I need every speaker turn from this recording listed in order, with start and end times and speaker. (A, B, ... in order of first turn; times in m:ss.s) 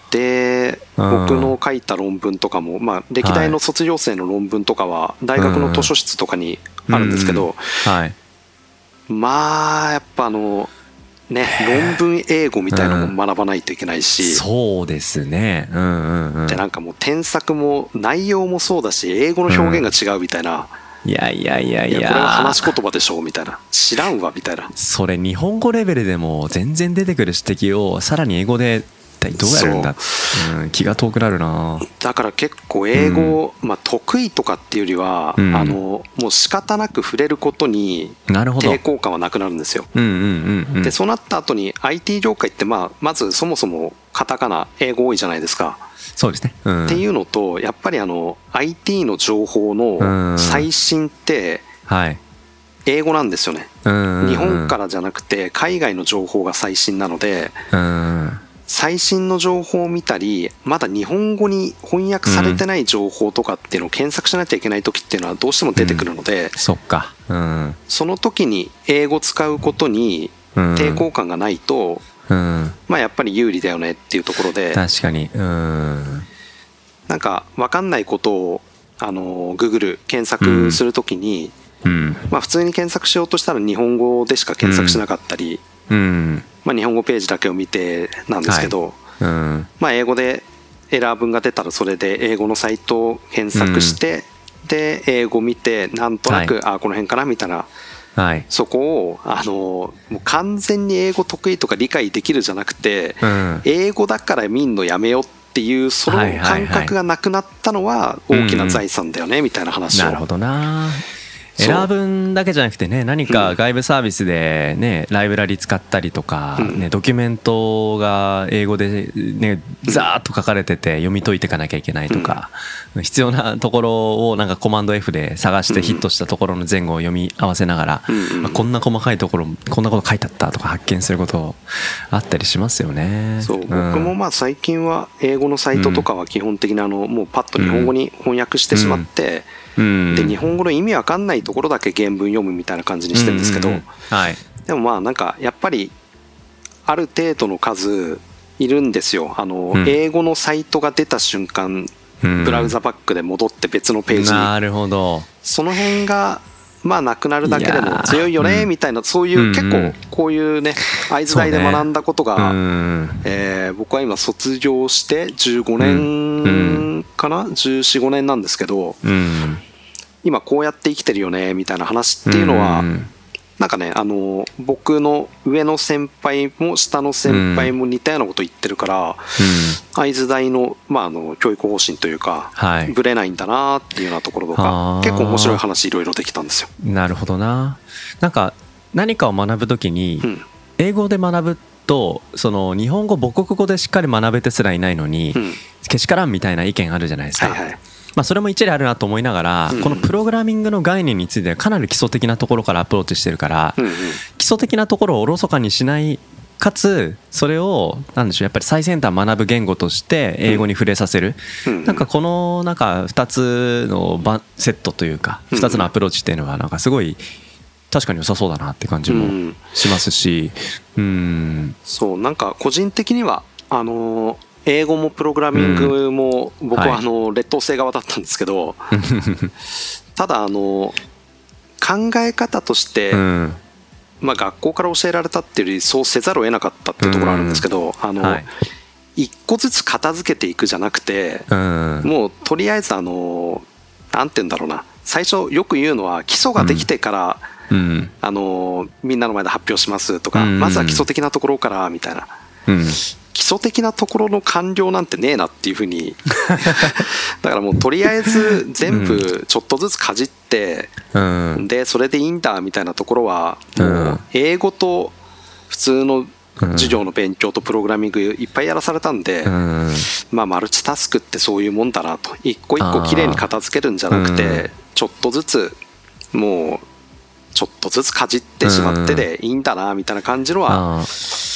0:00.1-0:07.8 A
0:01.0-0:01.5 B
0:03.2-0:03.6 B
0:05.4-0:05.9 B
0:06.9-0:08.1 B
0:09.1-0:10.7 A
0:11.3-0:14.4 A
0:11.4-0:12.0 B
0:12.7-0:13.1 B
0:14.2-0:16.6 B
0:16.5-0:20.7 A
0:19.5-0:19.8 B
0:21.0-0:22.7 B
0:21.9-0:24.7 A
0:24.8-0:31.9 B
0:29.4-0:30.3 A
0:31.9-0:39.9 A
0:32.9-0:33.4 B
0:35.4-0:35.8 B
0:38.3-0:38.8 B
0:39.9-0:40.9 B
0:40.8-0:45.8 A
0:46.2-0:47.0 B
0:46.9-0:51.6 A
0:50.0-0:50.7 B
0:51.9-0:52.2 B
0:52.8-0:53.7 A
0:53.8-0:54.7 B
0:54.2-0:57.6 A
0:57.7-0:58.4 B
0:58.7-1:06.6 A
1:02.2-1:02.6 B
1:05.8-1:07.8 B
1:07.9-1:12.0 A
1:10.6-1:11.0 B
1:12.3-1:12.8 B
1:12.9-1:14.8 A
1:14.7-1:16.3 B
1:17.1-1:21.5 A
1:20.4-1:20.8 B
1:21.8-1:22.3 B
1:22.3-1:25.6 A
1:24.6-1:25.0 B
1:25.9-1:26.4 B
1:26.6-1:29.0 A
1:28.5-1:29.7 B
1:29.8-1:37.7 A
1:33.5-1:34.0 B
1:36.3-1:36.5 B
1:38.2-1:38.4 B
1:38.5-1:50.2 A
1:43.2-1:43.6 B
1:46.0-1:46.9 B
1:48.3-1:48.8 B
1:49.9-1:51.0 B
1:51.6-2:14.1 B
1:51.6-1:51.9 A
1:53.3-1:53.5 A
1:56.6-1:56.8 A
2:02.1-2:02.4 A
2:05.7-2:06.0 A
2:08.1-2:08.6 A
2:13.4-2:19.5 A
2:15.7-2:16.1 B
2:17.6-2:17.9 B
2:18.7-2:19.0 B
2:19.8-2:20.4 B
2:20.1-2:23.9 A
2:23.1-2:24.4 B
2:24.6-2:25.9 A
2:26.8-2:34.5 A
2:29.7-2:30.0 B
2:32.2-2:32.7 B
2:34.1-2:35.3 B
2:35.4-2:42.6 A
2:37.4-2:38.7 B
2:39.3-2:40.0 B
2:41.3-2:41.8 B
2:42.4-2:43.2 B
2:43.2-2:49.0 A
2:45.8-2:46.9 B
2:49.0-2:49.6 B
2:50.2-2:52.9 A
2:52.3-2:53.1 B
2:53.6-2:59.3 A
2:57.3-2:57.7 B
2:59.4-2:59.8 B
2:59.9-3:06.7 A
3:02.6-3:02.9 B
3:04.5-3:05.6 B
3:06.8-3:10.3 B
3:10.8-3:17.6 B
3:15.3-3:15.6 A
3:17.4-3:17.8 A
3:18.2-3:37.2 B
3:19.7-3:20.1 A
3:23.8-3:24.2 A
3:31.6-3:32.0 A
3:35.5-3:35.9 A
3:37.9-3:41.8 B
3:39.1-3:39.6 A
3:41.8-3:48.9 A
3:45.5-3:45.9 B
3:46.7-3:47.0 B
3:48.9-3:49.5 B
3:50.2-3:51.0 A
3:51.8-3:53.2 A
3:53.1-3:53.6 B
3:54.2-3:58.4 A
3:57.0-3:57.6 B
3:58.2-3:58.5 B
3:59.2-4:01.5 A
4:01.5-4:02.1 B
4:02.0-4:07.5 A
4:06.6-4:06.9 B
4:07.7-4:08.1 B
4:08.2-4:12.3 A
4:10.3-4:11.0 B
4:12.7-4:13.0 B
4:13.3-4:21.0 A
4:18.8-4:19.2 B
4:21.1-4:21.6 B
4:21.6-4:25.1 A
4:23.8-4:24.2 B
4:25.7-4:29.5 A
4:26.6-4:27.0 B
4:29.4-4:30.1 B
4:30.1-4:35.8 A
4:32.8-4:33.4 B
4:34.1-4:34.7 B
4:36.3-4:36.8 A
4:37.5-4:40.8 A
4:38.6-4:39.3 B
4:40.7-4:41.1 B